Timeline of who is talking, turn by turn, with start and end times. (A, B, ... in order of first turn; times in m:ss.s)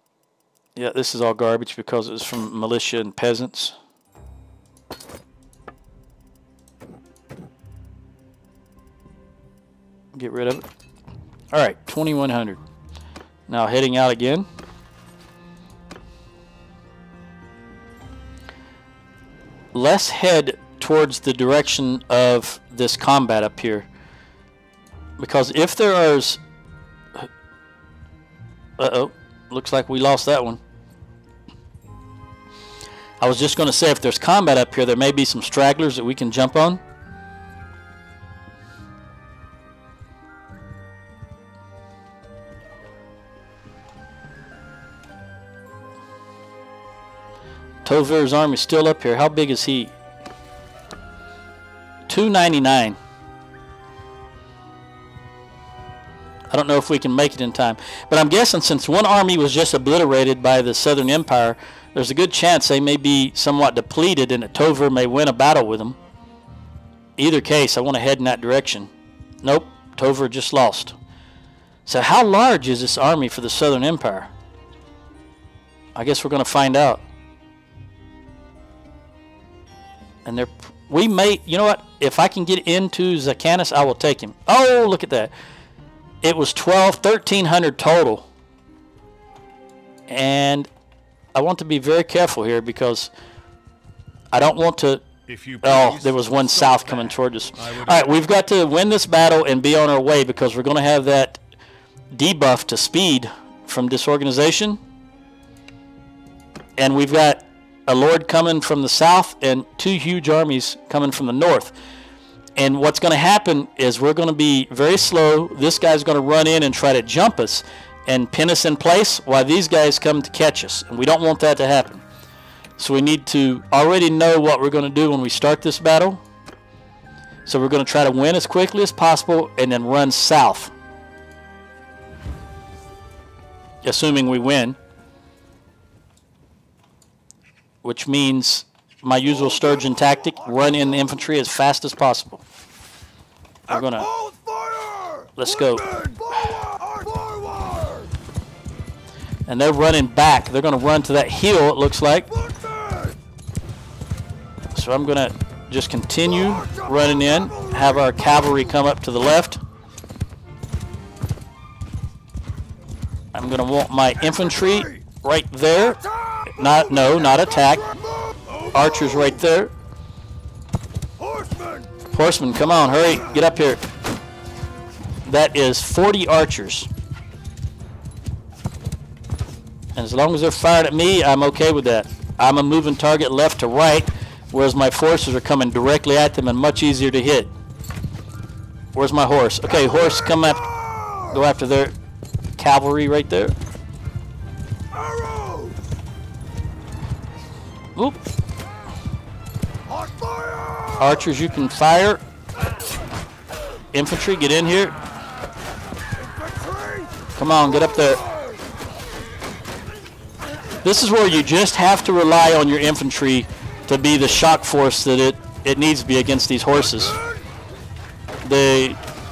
0:00.8-0:03.8 A
0:10.1-0:10.6 A
0:11.5-0:12.6 A
0:13.5-0:14.5 A
0:19.7-0:23.9 A
0:25.2-0:26.4 A
0:28.8-0:30.6 A
0:33.2-0:36.8 A
0:47.8-0:49.9 A
0:52.1-0:53.0 A
0:56.5-1:06.0 A
1:07.2-1:08.9 A
1:09.4-1:11.0 A
1:11.9-1:14.3 A
1:16.0-1:17.0 A
1:20.2-1:25.3 A
1:26.2-1:28.3 A
1:30.1-1:30.7 A
1:31.4-1:33.1 A
1:34.3-1:35.1 A
1:35.3-1:38.3 B
1:35.6-1:41.4 A
1:42.1-1:44.8 A
1:46.8-1:51.7 A
1:52.6-2:02.0 A
2:02.8-2:06.2 A
2:07.5-2:10.7 A
2:13.8-2:14.8 A
2:17.8-2:22.4 A
2:19.3-2:21.3 C
2:23.7-2:28.1 C
2:23.7-2:24.1 A
2:25.4-2:25.8 A
2:29.5-2:32.3 A
2:32.3-2:33.2 C
2:34.7-2:39.6 A
2:36.2-2:38.8 C
2:43.3-2:47.9 A
2:44.2-2:45.0 C
2:45.8-2:49.4 C
2:48.7-2:49.7 A
2:51.2-2:51.9 C
2:52.1-2:53.8 A
2:52.8-2:53.4 C
2:55.3-2:56.9 A
3:00.0-3:07.5 A
3:09.0-3:10.7 A
3:09.6-3:11.4 C
3:11.3-3:12.0 A
3:12.6-3:13.6 A
3:14.9-3:15.9 C
3:19.9-3:21.3 C
3:21.0-3:22.2 A
3:23.9-3:25.0 A
3:26.1-3:28.6 C
3:27.4-3:28.2 A
3:30.8-3:37.2 A
3:37.0-3:37.4 C
3:38.4-3:39.0 A